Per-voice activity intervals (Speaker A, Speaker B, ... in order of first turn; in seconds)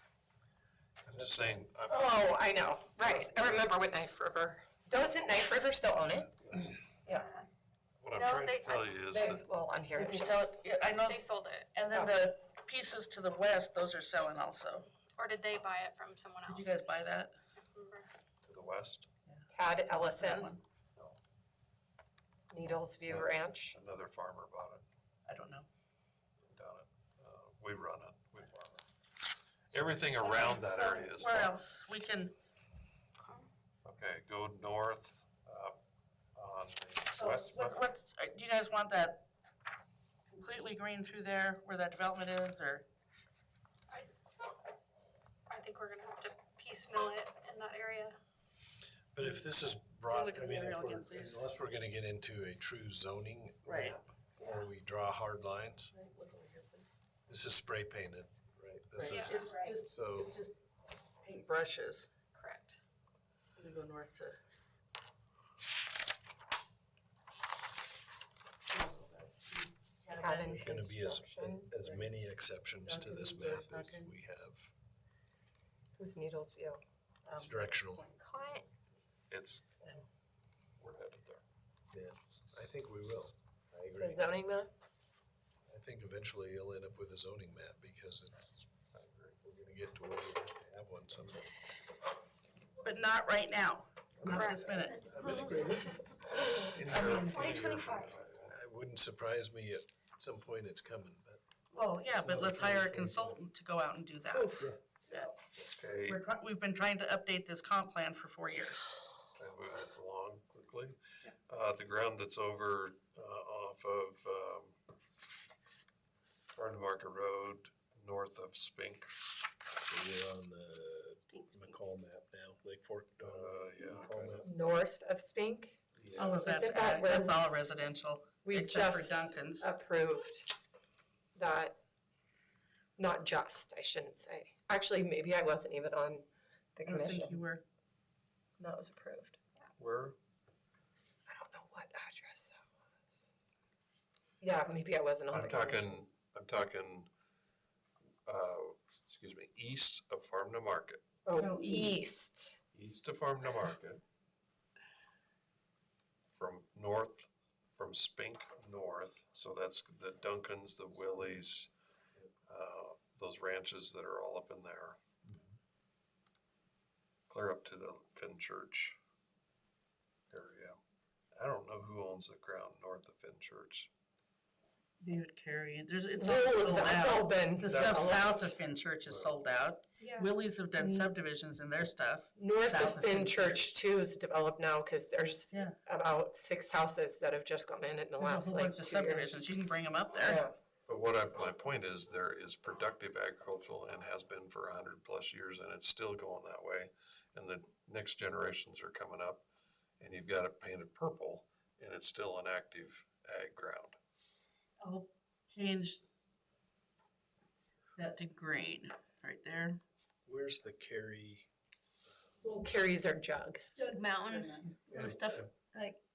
Speaker A: 1.0-2.4, 8.0-9.4, 18.4-19.1, 23.1-24.8, 26.4-28.9, 29.7-31.6, 33.9-35.8, 36.4-37.8, 79.3-79.7, 80.8-81.4, 89.0-89.3, 96.4-98.5, 105.8-106.2, 109.4-114.8, 116.5-119.4, 123.2-124.5, 126.0-126.4, 139.8-140.2, 145.3-147.1, 148.3-151.0, 152.7-154.0, 156.3-161.7, 162.5-165.0, 167.3-169.0, 170.3-170.8, 171.3-173.9, 177.6-178.4, 179.0-179.4, 190.9-199.4, 200.0-204.0
Speaker B: 1.9-7.3, 9.1-10.6, 19.5-20.6, 22.5-23.8, 70.1-71.7, 76.0-76.8, 78.1-78.6, 83.9-84.7, 124.4-125.8, 126.4-127.4, 128.4-130.5, 131.3-131.8, 133.0-137.4, 138.6-139.4, 141.3-142.6, 144.4-145.9, 151.2-152.6, 176.2-178.6, 180.8-181.2, 182.4-189.5, 190.2-190.6, 212.4-213.6
Speaker C: 7.1-7.5, 8.1-8.9, 10.8-11.7, 15.2-16.9, 17.6-18.1, 33.2-33.5, 45.5-48.2, 59.0-59.8, 62.3-62.8, 94.3-96.0, 97.3-98.2, 180.0-180.3
Speaker D: 10.0-14.9, 16.5-17.3, 19.3-20.6, 25.3-25.7, 30.2-32.3, 37.1-39.3, 40.3-42.9, 50.1-51.4, 53.6-54.6, 55.9-56.9, 59.0-60.6, 61.2-62.1, 63.6-64.4, 68.7-70.7, 72.8-74.1, 77.3-77.6, 92.8-95.6, 96.9-97.5, 101.7-105.4, 106.1-108.9, 126.2-129.7, 136.8-137.6, 151.4-152.1, 175.0-183.6, 188.2-190.4, 204.8-206.0, 208.0-209.8, 213.9-215.1
Speaker E: 49.1-55.9, 57.3-60.3, 70.4-74.7, 77.4-78.1, 81.9-84.3, 85.7-88.7, 89.4-91.5, 94.2-96.0, 96.9-101.4, 102.1-103.4, 104.3-104.8, 119.9-124.5, 210.3-211.5
Speaker F: 213.8-216.0